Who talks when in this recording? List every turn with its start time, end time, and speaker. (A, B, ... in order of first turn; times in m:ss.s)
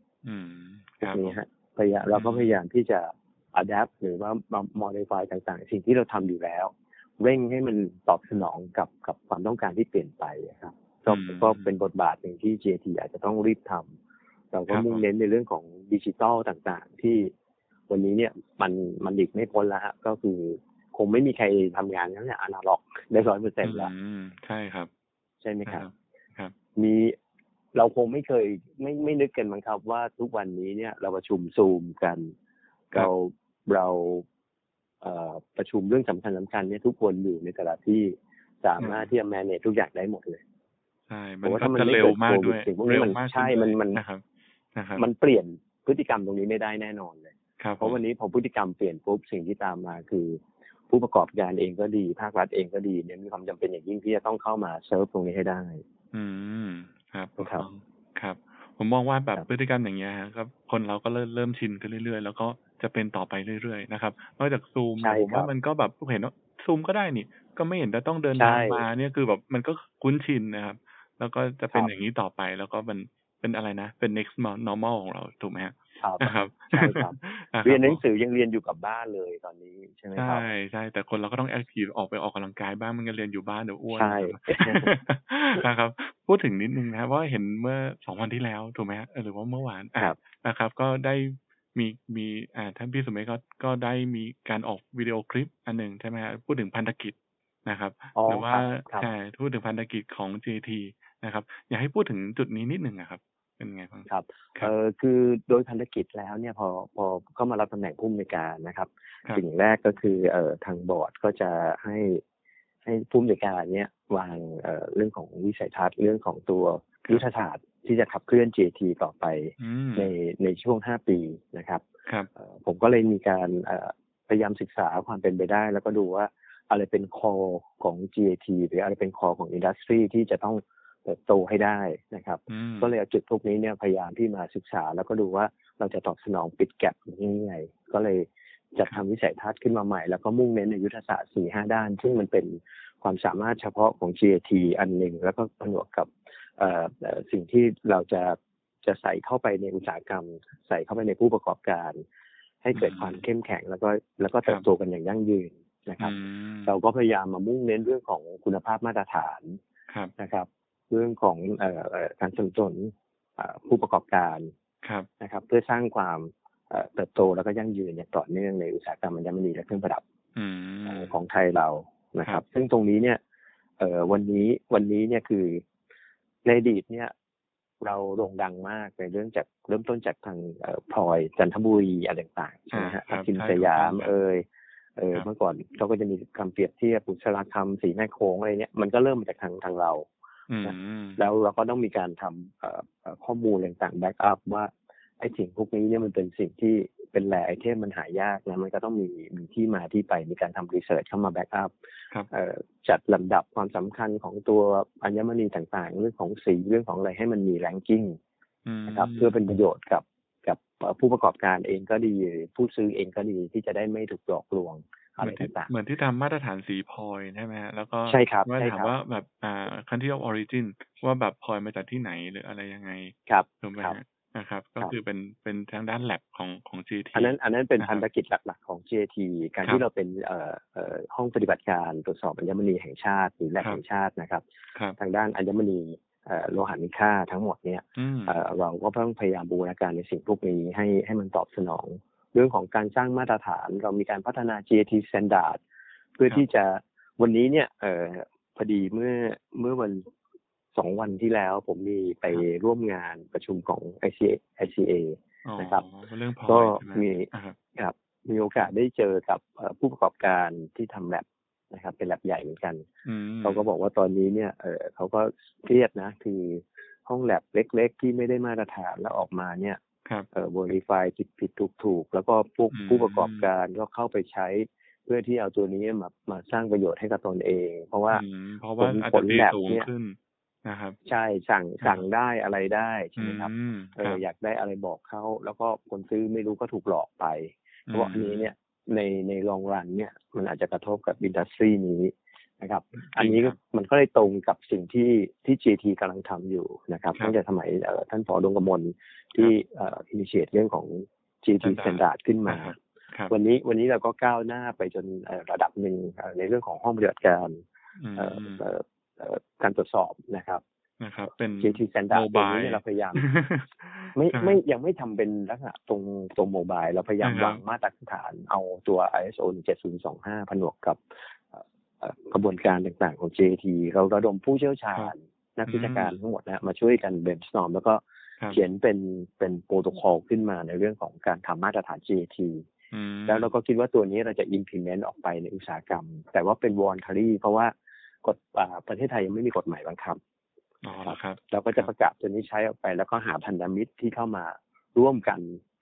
0:00.2-0:01.4 A
0:01.0-0:13.9 B
0:02.1-0:02.5 A
0:11.1-0:11.7 A
0:14.5-0:17.3 B
0:14.7-0:15.0 A
0:17.9-0:23.9 B
0:23.6-0:24.9 A
0:25.4-0:25.9 B
0:25.6-0:26.5 A
0:26.8-0:27.2 B
0:27.7-0:32.3 B
0:32.9-0:34.2 B
0:35.0-0:40.4 B
0:38.8-0:39.1 A
0:41.1-0:44.2 A
0:41.4-0:44.0 B
0:44.7-0:45.0 A
0:45.0-0:55.8 B
0:47.6-0:48.0 A
0:56.1-1:18.0 A
0:57.4-0:57.7 B
1:05.0-1:05.5 B
1:08.4-1:08.8 B
1:16.0-1:20.4 B
1:20.2-1:37.1 A
1:23.9-1:24.9 B
1:37.6-1:44.7 A
1:38.1-1:39.1 B
1:44.1-1:52.2 B
1:52.8-2:01.8 B
1:59.6-2:00.1 A
2:02.4-2:32.0 B
2:12.5-2:12.9 A
2:32.6-2:39.6 B
2:32.7-2:33.2 A
2:36.0-2:36.7 A
2:40.2-2:44.5 B
2:44.8-2:45.1 A
2:45.2-2:50.0 B
2:50.4-2:51.1 A
2:50.8-2:53.2 B
2:53.8-2:55.6 B
2:56.4-2:57.1 B
2:57.8-3:04.4 B
3:02.7-3:04.1 A
3:05.0-3:10.1 B
3:10.5-3:11.2 A
3:10.6-3:21.7 B
3:22.3-3:28.2 B
3:28.6-3:29.4 A
3:28.9-3:35.7 B
3:35.2-3:48.0 A
3:38.1-3:38.9 B
3:43.3-3:44.0 B
3:47.1-3:54.4 B
3:55.0-4:05.6 B
3:58.0-3:58.4 A
4:06.2-4:10.0 B
4:10.7-4:15.8 B
4:15.4-4:17.6 A
4:16.5-4:22.8 B
4:23.0-4:23.7 A
4:23.4-4:29.8 B
4:30.3-4:38.2 B
4:32.7-4:33.5 A
4:38.1-4:41.0 A
4:38.8-4:39.9 B
4:41.0-5:02.8 B
4:41.8-4:42.1 A
4:43.2-4:44.2 A
4:47.9-4:48.5 A
4:53.0-4:53.6 A
5:01.6-5:03.3 A
5:03.3-5:07.6 B
5:08.0-5:08.6 A
5:08.2-5:10.6 B
5:11.0-5:14.6 A
5:11.6-5:13.2 B
5:14.1-5:21.0 B
5:17.2-5:17.6 A
5:21.5-5:32.7 B
5:25.7-5:26.2 A
5:32.9-5:33.5 A
5:33.3-5:37.7 B
5:38.2-5:40.2 B
5:40.8-5:41.9 A
5:41.0-5:45.6 B